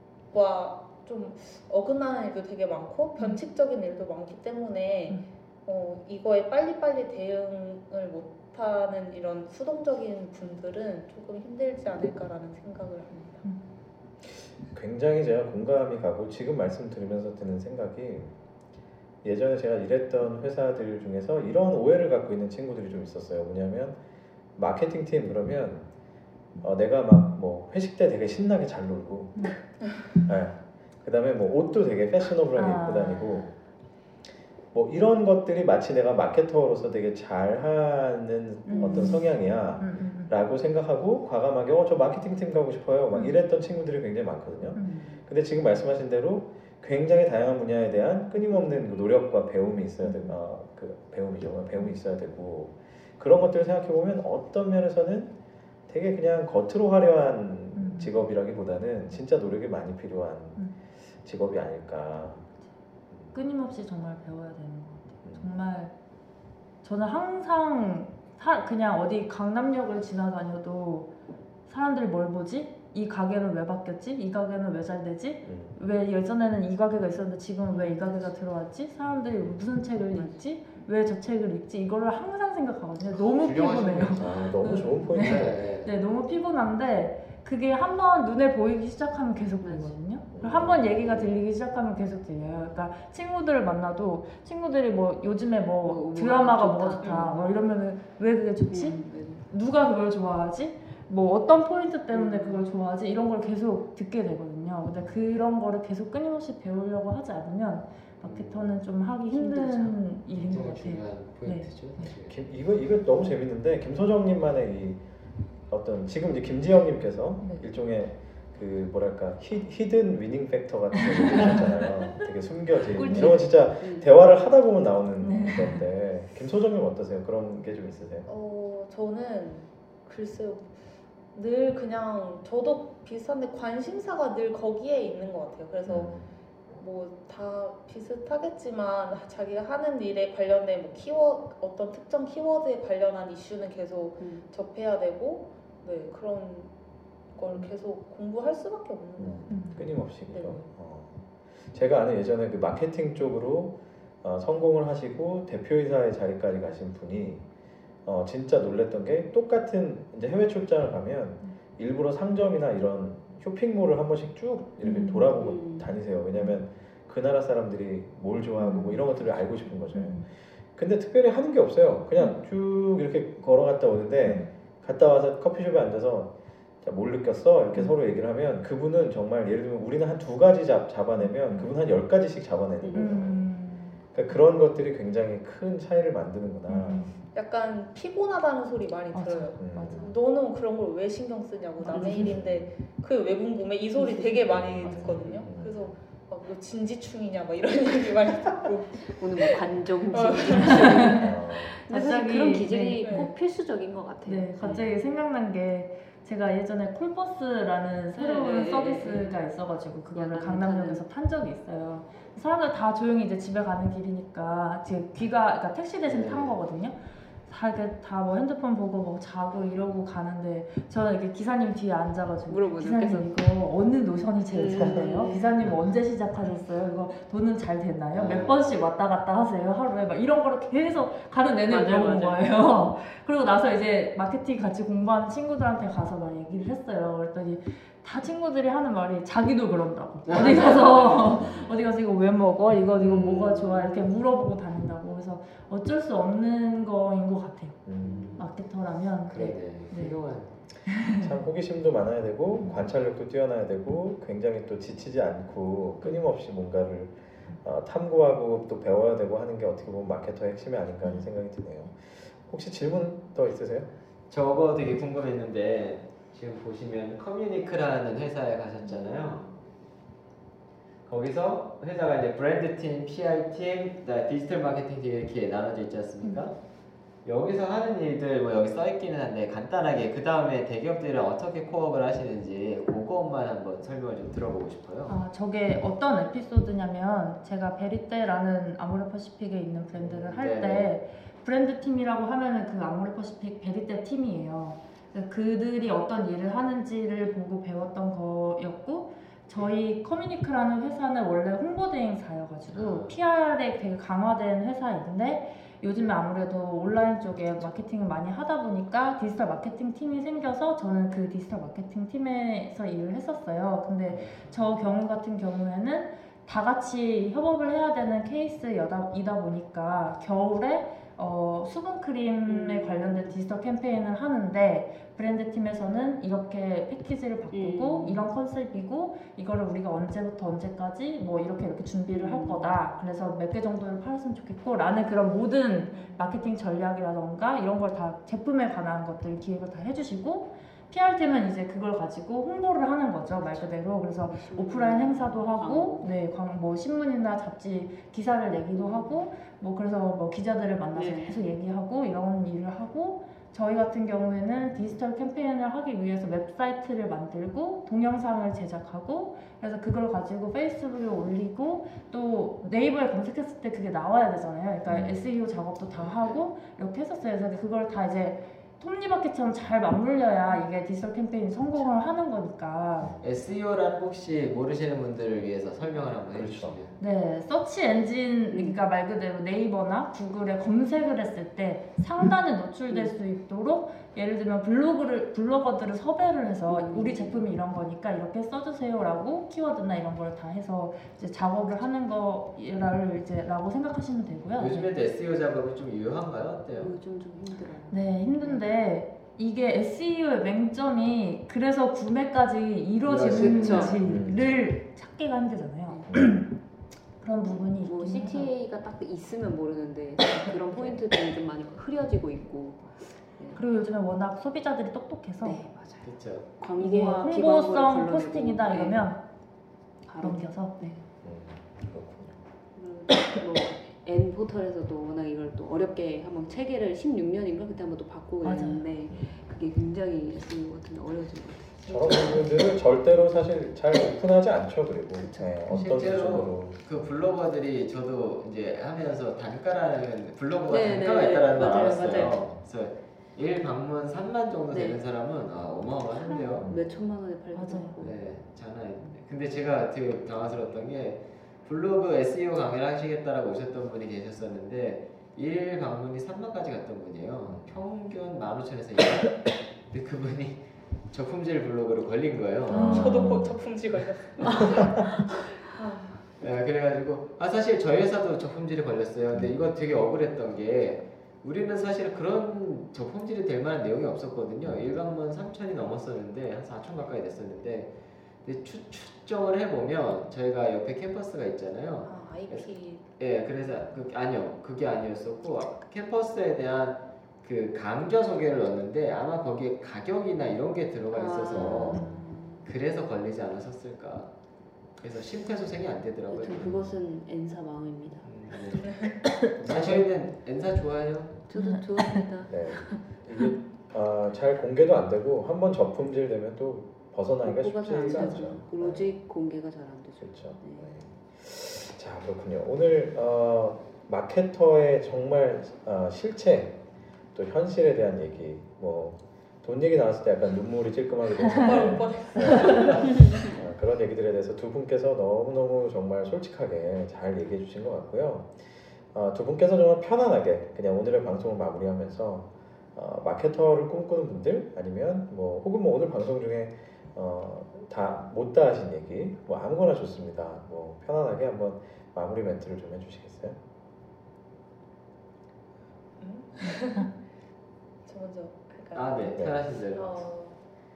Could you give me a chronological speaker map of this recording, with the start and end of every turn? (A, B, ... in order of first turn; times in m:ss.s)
0:00.3-0:13.5 A
0:14.3-0:18.3 B
0:19.2-0:24.0 B
0:24.6-0:25.9 B
0:26.6-0:29.5 B
0:30.1-0:33.5 B
0:32.6-0:33.5 C
0:34.7-0:55.3 B
0:38.7-0:40.3 C
0:38.7-0:39.1 D
0:44.8-0:45.2 C
0:50.0-0:50.4 C
0:55.9-1:00.6 B
0:57.8-0:58.2 C
1:01.2-1:02.4 B
1:03.3-1:05.9 C
1:06.8-1:11.1 C
1:11.7-1:52.1 C
1:15.4-1:15.8 B
1:17.7-1:18.3 D
1:20.1-1:20.8 D
1:23.2-1:24.5 E
1:24.2-1:25.6 B
1:25.2-1:26.0 E
1:29.6-1:30.0 D
1:30.3-1:31.3 B
1:35.9-1:37.5 D
1:38.7-1:39.4 D
1:42.1-1:42.7 D
1:48.2-1:48.8 E
1:49.3-1:49.9 D
1:50.3-1:52.4 E
1:52.3-1:55.0 B
1:55.7-2:08.3 B
2:01.0-2:01.9 C
2:03.0-2:03.4 C
2:03.0-2:04.1 D
2:05.2-2:05.9 C
2:08.3-2:10.8 A
2:11.3-2:16.2 A
2:15.8-2:16.3 B
2:16.7-2:26.7 A
2:24.2-2:24.5 D
2:27.3-2:30.7 A
2:29.2-2:37.4 B
2:29.5-2:29.8 C
2:38.0-2:56.3 B
2:44.8-2:45.4 C
2:45.1-2:45.9 D
2:48.6-2:49.0 C
2:49.9-2:50.3 C
2:54.3-2:54.5 C
2:56.8-3:03.4 B
2:57.7-2:58.0 C
3:01.2-3:01.7 C
3:02.8-3:03.1 D
3:02.9-3:04.0 C
3:04.1-3:07.1 B
3:06.7-3:07.2 C
3:07.3-3:21.2 A
3:09.1-3:10.1 C
3:09.6-3:10.1 B
3:11.8-3:12.4 C
3:11.9-3:12.2 D
3:12.1-3:12.7 B
3:14.0-3:15.1 D
3:14.5-3:16.0 B
3:19.1-3:24.9 D
3:20.6-3:21.3 C
3:21.2-3:21.8 B
3:21.9-3:23.2 C
3:23.0-3:23.3 A
3:24.2-4:07.8 C
3:28.2-3:29.4 D
3:30.1-3:31.0 D
3:36.0-3:36.6 E
3:42.5-3:43.3 D
3:44.5-3:45.4 D
3:48.1-3:48.7 E
3:51.7-3:52.4 D
4:00.3-4:01.8 E
4:00.4-4:01.2 D
4:03.0-4:04.0 E
4:07.8-4:08.3 B
4:08.0-4:08.5 E
4:08.4-4:10.2 C
4:09.3-4:10.6 E
4:10.9-4:11.3 C
4:11.1-4:23.9 B
4:24.3-4:29.4 E
4:31.1-4:36.6 E
4:37.2-4:45.2 E
4:45.1-6:13.1 C
4:49.9-4:50.9 E
5:02.7-5:03.2 E
5:14.1-5:14.7 E
5:22.5-5:23.3 D
5:27.5-5:28.3 D
5:32.1-5:32.7 D
5:35.9-5:36.2 A
5:43.5-5:46.1 D
5:48.7-5:49.2 D
5:51.0-5:51.4 D
6:04.9-6:05.3 B
6:05.9-6:06.4 E
6:13.0-6:13.2 B
6:13.2-6:17.0 E
6:16.3-6:16.8 B
6:17.0-6:34.9 C
6:18.5-6:18.8 D
6:26.7-6:27.4 D
6:34.6-6:37.0 E
6:36.8-6:38.7 D
6:37.9-6:46.5 C
6:43.0-6:44.2 E
6:43.2-6:44.0 D
6:44.0-6:44.5 B
6:46.1-6:46.4 B
6:47.2-6:48.5 C
6:47.7-6:53.6 D
6:50.4-6:51.0 C
6:53.6-6:55.6 C
6:55.4-6:59.1 D
6:56.0-6:56.5 E
6:56.8-6:59.2 C
7:00.0-7:01.0 D
7:00.2-7:00.8 C
7:01.2-7:02.4 B
7:02.8-7:12.5 D
7:08.4-7:08.9 C
7:09.1-7:09.4 B
7:11.9-7:16.9 B
7:15.1-7:16.0 D
7:15.7-7:26.7 E
7:20.7-7:22.4 D
7:21.6-7:22.6 B
7:24.7-7:25.0 D
7:26.1-7:28.2 D
7:26.6-7:26.9 B
7:27.5-7:28.0 C
7:28.0-7:43.3 E
7:42.7-7:43.6 B
7:42.8-7:45.0 A
7:45.7-7:46.2 A
7:46.4-7:57.9 E
7:58.4-8:12.0 E
8:02.0-8:03.0 A
8:11.1-8:12.6 D
8:11.6-8:12.2 B
8:11.9-8:12.3 C
8:12.6-8:14.3 E
8:15.0-8:16.9 E
8:16.3-8:18.5 D
8:18.2-8:19.0 E
8:18.8-8:19.2 A
8:19.6-8:21.4 E
8:19.6-8:20.0 B
8:19.7-8:19.9 D
8:21.5-8:23.0 D
8:21.6-8:22.3 C
8:22.5-8:29.1 B
8:27.4-8:30.9 D
8:28.1-8:28.6 C
8:30.2-8:36.8 B
8:37.3-8:48.6 B
8:41.6-8:43.5 A
8:49.1-9:03.6 B
9:06.2-9:07.1 A
9:08.0-9:09.4 A
9:09.0-9:10.1 E
9:09.3-9:09.6 B
9:09.9-9:10.6 A